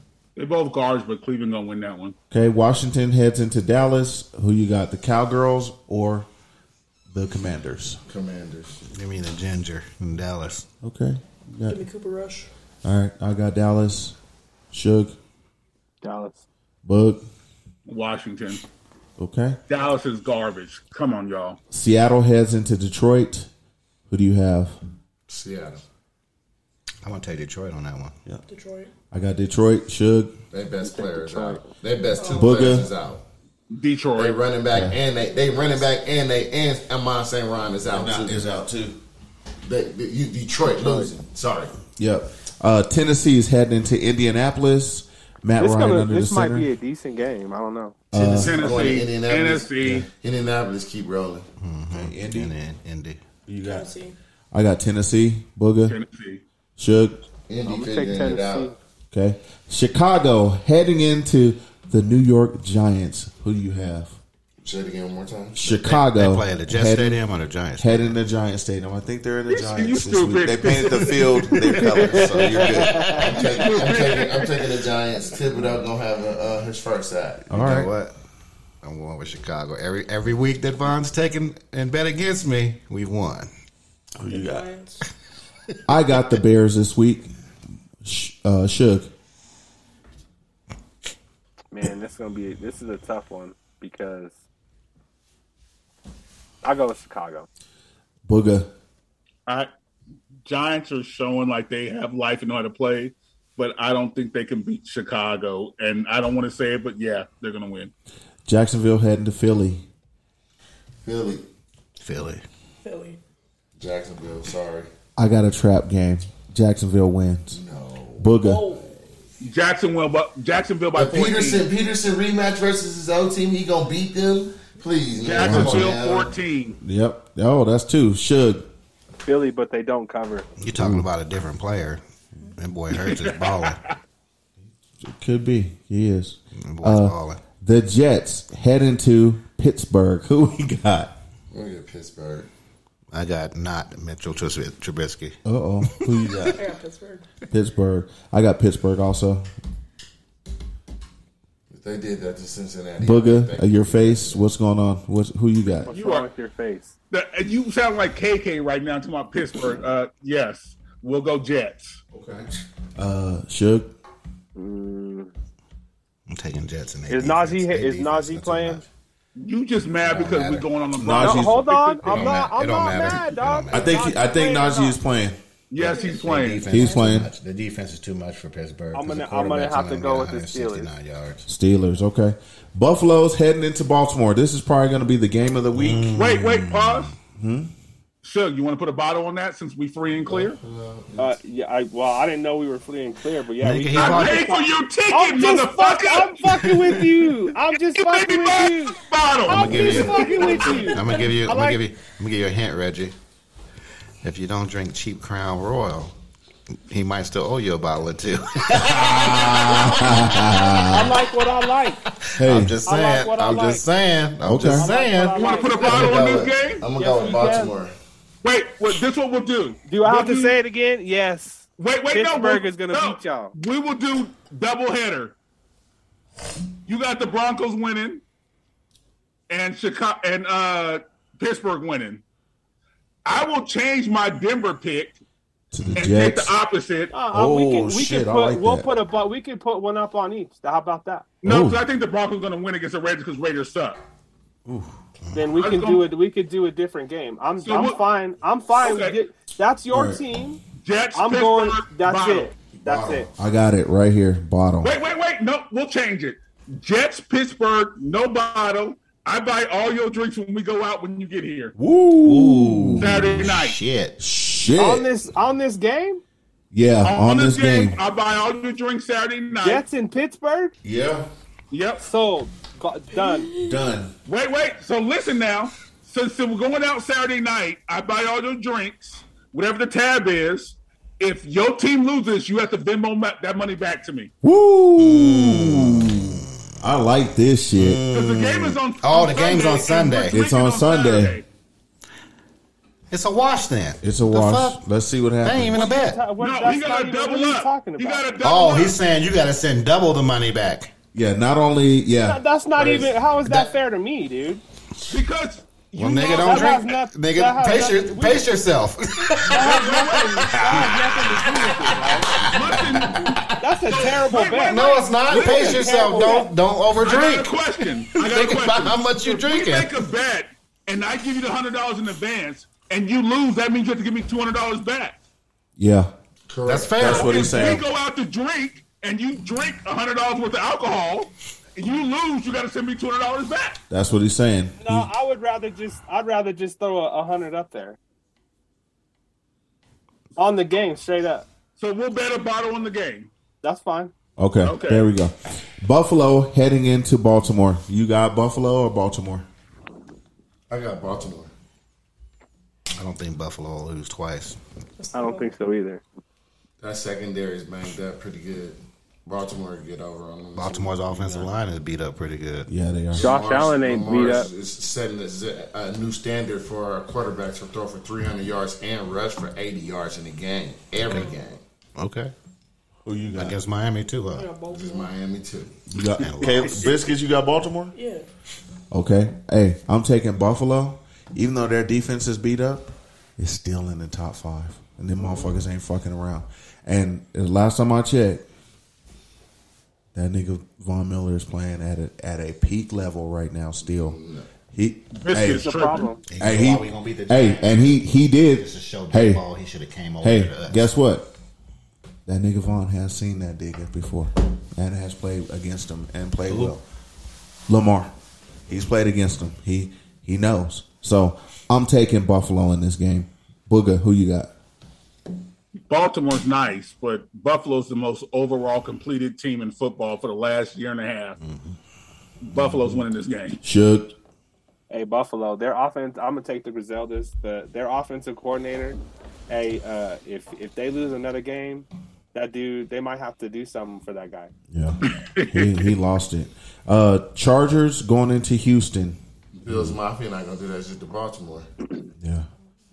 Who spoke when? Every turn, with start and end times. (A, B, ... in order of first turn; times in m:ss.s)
0:00.4-0:02.2 A
0:02.3-0:06.3 B
0:07.1-0:08.0 B
0:08.1-0:08.8 C
0:08.9-0:10.7 D
0:10.8-0:11.8 B
0:11.7-0:12.5 E
0:12.8-0:14.2 B
0:14.7-0:15.2 B
0:16.0-0:16.4 F
0:16.8-0:17.3 B
0:17.9-0:18.6 A
0:19.2-0:19.6 B
0:19.7-0:21.6 A
0:21.7-0:23.5 B
0:24.1-0:24.8 B
0:25.3-0:25.8 C
0:27.0-0:28.2 D
0:28.5-0:28.9 E
0:29.1-0:30.4 B
0:30.5-0:33.2 C
0:30.8-0:31.6 F
0:32.2-0:32.8 E
0:32.4-0:32.9 B
0:33.7-0:34.4 A
0:34.1-0:38.4 C
0:34.7-0:35.0 B
0:37.9-0:39.0 B
0:39.6-0:41.7 C
0:40.7-0:41.1 F
0:42.0-0:46.7 B
0:45.6-0:48.0 F
0:48.1-0:48.9 B
0:48.1-0:51.5 C
0:48.4-0:50.1 A
0:51.6-0:53.2 D
0:51.9-0:52.5 B
0:53.5-0:53.9 B
0:53.6-0:54.2 E
0:54.5-0:56.0 B
0:55.9-0:56.4 A
0:56.8-0:57.2 B
0:57.5-0:58.7 C
0:57.6-0:58.8 F
0:59.1-1:04.2 B
1:04.6-1:05.6 C
1:05.6-1:07.2 B
1:05.7-1:08.2 D
1:07.8-1:13.2 B
1:09.5-1:11.9 A
1:11.9-1:13.3 F
1:13.1-1:17.5 C
1:13.3-1:14.6 A
1:17.5-1:17.9 B
1:17.5-1:18.1 D
1:18.8-1:23.5 D
1:24.2-1:24.7 B
1:24.3-1:25.0 E
1:25.9-1:27.3 B
1:28.0-1:29.1 B
1:31.7-1:34.4 F
1:36.6-1:37.5 F
1:38.3-1:38.7 B
1:40.4-1:47.9 A
1:48.5-1:49.8 B
1:51.0-1:51.4 C
1:52.0-1:52.4 D
1:52.8-1:53.2 E
1:53.8-1:54.9 C
1:55.2-1:57.6 B
1:57.5-1:58.4 C
1:58.2-1:58.7 B
1:58.4-1:58.9 E
1:59.4-2:01.7 A
2:00.9-2:06.3 C
2:05.2-2:06.8 A
2:05.4-2:06.0 B
2:06.8-2:08.7 B
2:09.2-2:10.5 F
2:10.6-2:12.0 D
2:10.8-2:11.1 B
2:12.6-2:13.8 D
2:12.9-2:13.9 A
2:15.0-2:21.2 B
2:16.6-2:17.4 D
2:21.5-2:22.5 C
2:23.1-2:26.5 D
2:25.4-2:26.6 B
2:26.6-2:27.3 E
2:27.5-2:29.5 B
2:31.7-2:34.5 C
2:33.0-2:35.9 B
2:35.9-2:36.9 F
2:35.9-2:36.3 A
2:37.1-2:42.0 A
2:42.1-2:44.0 B
2:44.6-2:45.3 F
2:46.3-2:48.9 D
2:47.1-2:48.8 F
2:49.4-2:52.3 A
2:50.0-2:50.7 D
2:50.9-2:51.7 B
2:51.2-2:55.0 F
2:52.0-2:54.0 D
2:53.7-2:55.4 B
2:55.7-2:56.7 A
2:55.8-3:01.5 D
2:55.8-2:56.2 E
2:56.7-2:57.3 B
2:58.9-3:00.9 F
3:01.5-3:06.3 B
3:05.7-3:07.1 D
3:06.1-3:07.1 A
3:07.3-3:07.7 B
3:08.2-3:10.6 A
3:10.2-3:11.4 C
3:11.2-3:19.0 F
3:13.6-3:14.5 D
3:13.9-3:17.1 A
3:17.9-3:20.6 A
3:19.5-3:23.2 D
3:19.5-3:21.8 F
3:20.4-3:20.8 C
3:20.5-3:21.3 E
3:24.2-3:26.1 D
3:26.9-3:30.6 D
3:28.7-3:31.2 B
3:30.9-3:32.0 F
3:32.3-3:36.3 D
3:32.4-3:32.8 B
3:32.9-3:33.8 F
3:34.4-3:34.9 B
3:34.8-3:36.3 F
3:35.3-3:36.8 A
3:35.7-3:37.9 C
3:37.0-3:37.7 F
3:38.4-3:40.6 A
3:39.9-3:43.5 F
3:41.8-3:45.4 A
3:46.9-3:48.2 A
3:49.5-3:52.2 A
3:53.2-3:55.2 A
3:55.7-3:56.5 B
3:56.0-3:57.1 A
3:57.1-4:01.3 F
3:57.3-3:59.0 B
4:01.4-4:04.0 A
4:01.4-4:01.8 B
4:04.7-4:04.9 B
4:05.3-4:10.6 F
4:05.6-4:06.0 A
4:07.6-4:08.0 A
4:08.8-4:09.2 A
4:09.9-4:10.2 B
4:10.8-4:12.5 A
4:11.2-4:13.3 F
4:12.8-4:13.2 C
4:13.4-4:15.0 B
4:14.8-4:21.7 A
4:21.8-4:23.5 B
4:22.2-4:24.2 D
4:23.0-4:23.8 A
4:24.2-4:25.1 B
4:24.8-4:26.2 F
4:26.7-4:28.0 B
4:27.0-4:29.8 A
4:29.6-4:30.7 F
4:30.8-4:31.2 B
4:31.7-4:32.0 A
4:32.0-4:33.5 F
4:33.2-4:33.5 E
4:33.6-4:34.1 B
4:34.3-4:44.3 A
4:44.4-4:48.0 B
4:45.0-4:46.5 D
4:47.7-4:50.4 D
4:48.1-4:51.4 A
4:50.3-4:51.4 B
4:53.1-4:54.8 D
4:54.0-4:55.9 B
4:55.4-4:56.2 D
4:55.8-4:58.4 F
4:56.4-4:59.0 A
4:58.4-5:00.9 D
5:01.1-5:03.1 B
5:02.2-5:04.6 F
5:05.1-5:06.8 A
5:06.0-5:11.4 D
5:06.4-5:08.4 F
5:09.5-5:12.4 F
5:09.5-5:10.9 A
5:12.4-5:13.4 D
5:12.4-5:13.4 A
5:13.6-5:16.5 F
5:13.9-5:15.9 A
5:14.6-5:17.6 D
5:17.0-5:25.2 A
5:18.1-5:20.0 D
5:25.8-5:26.1 B
5:26.5-5:27.3 C
5:26.6-5:27.8 D
5:27.0-5:27.8 B
5:27.0-5:33.8 A
5:33.9-5:35.1 B
5:34.8-5:38.0 F
5:40.4-5:41.5 F
5:41.8-5:43.3 A
5:43.6-5:44.1 F
5:44.4-5:49.5 B
5:44.6-5:45.1 A
5:50.7-5:51.5 C
5:53.0-5:54.6 D
5:55.0-5:55.5 E
5:55.1-5:56.0 F
5:56.8-6:01.0 C
6:00.6-6:02.7 D
6:02.7-6:03.3 B
6:03.1-6:11.6 C
6:03.2-6:04.5 F
6:11.0-6:11.4 E
6:11.0-6:11.3 D
6:12.0-6:12.3 D
6:13.0-6:13.6 B
6:13.3-6:14.5 D
6:14.3-6:15.1 E
6:14.7-6:15.8 C
6:15.9-6:18.0 B
6:16.2-6:16.9 D
6:17.9-6:18.3 E
6:18.9-6:28.5 B
6:30.1-6:34.2 B
6:33.8-6:34.5 C
6:34.7-6:35.7 B
6:35.2-6:36.1 A
6:35.5-6:36.2 F
6:36.3-6:40.9 D
6:36.4-6:39.4 B
6:40.2-6:41.3 B
6:42.3-6:46.8 B
6:46.5-6:46.8 D
6:47.7-6:48.1 B
6:48.7-6:54.5 B
6:55.9-7:01.4 A
7:01.4-7:01.8 D
7:02.4-7:03.6 A
7:02.6-7:03.0 B
7:03.6-7:04.1 B
7:04.9-7:14.5 F
7:14.7-7:20.0 B
7:15.0-7:15.9 A
7:19.6-7:21.7 C
7:22.2-7:22.5 B